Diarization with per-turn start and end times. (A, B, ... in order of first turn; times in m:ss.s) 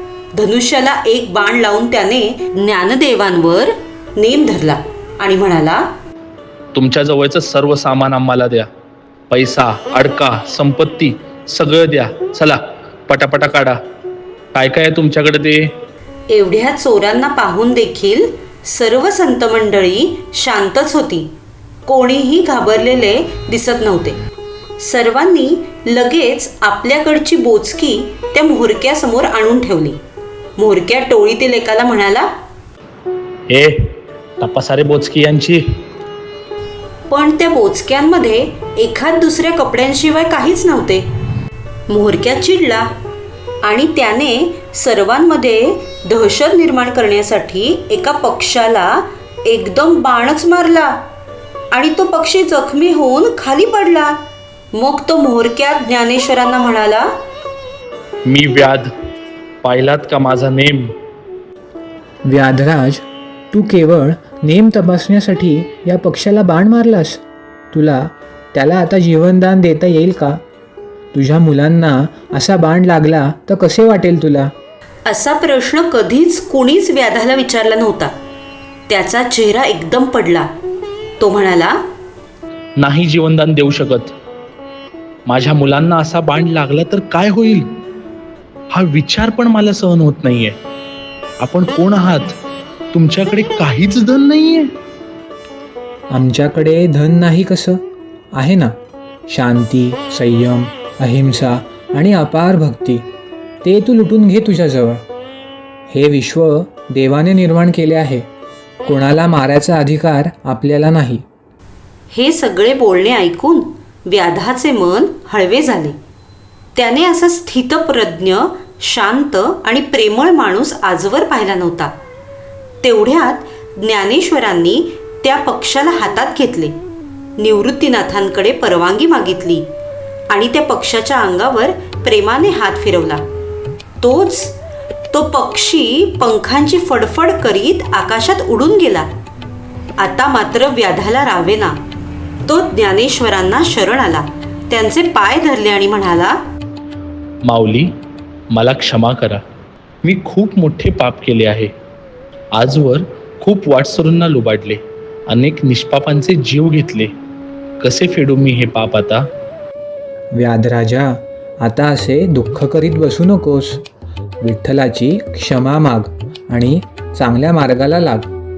0:00.3-0:05.9 A
0:06.7-0:08.7 B
0:09.3-0:13.8 B
0:14.5-0:15.7 B
0:16.3-0:21.3 A
0:21.9-0:24.2 A
0:24.8-0:30.0 A
0:30.6-0:32.3 A
0:33.5-0:35.6 B
0:37.1-0:41.1 A
0:41.9-0:42.9 A
0:43.6-0:51.0 A
0:51.7-0:54.2 A
0:54.7-0:57.1 A
0:58.3-0:58.9 B
0:59.6-1:00.9 B
1:02.3-1:07.2 C
1:07.7-1:10.4 C
1:11.1-1:14.5 C
1:15.1-1:18.1 A
1:18.9-1:20.5 A
1:21.2-1:21.8 A
1:22.8-1:24.1 B
1:25.3-1:27.8 B
1:28.7-1:30.6 B
1:31.4-1:32.4 B
1:32.9-1:34.7 B
1:36.1-1:37.8 C
1:38.3-1:38.7 C
1:39.3-1:43.1 C
1:43.6-1:45.0 C
1:45.9-1:48.2 C
1:48.8-1:51.2 C
1:52.1-1:56.0 A
1:56.8-2:01.9 A
2:02.8-2:06.8 A
2:07.4-2:09.7 A
2:10.3-2:13.2 A
2:14.0-2:14.6 A
2:15.1-2:19.1 A
2:20.0-2:21.8 A
2:22.4-2:26.4 A
2:27.5-2:27.9 B
2:28.5-2:29.4 B
2:30.0-2:31.7 B
2:32.5-2:37.1 B
2:37.8-2:39.2 B
2:40.4-2:43.8 C
2:44.4-2:48.3 C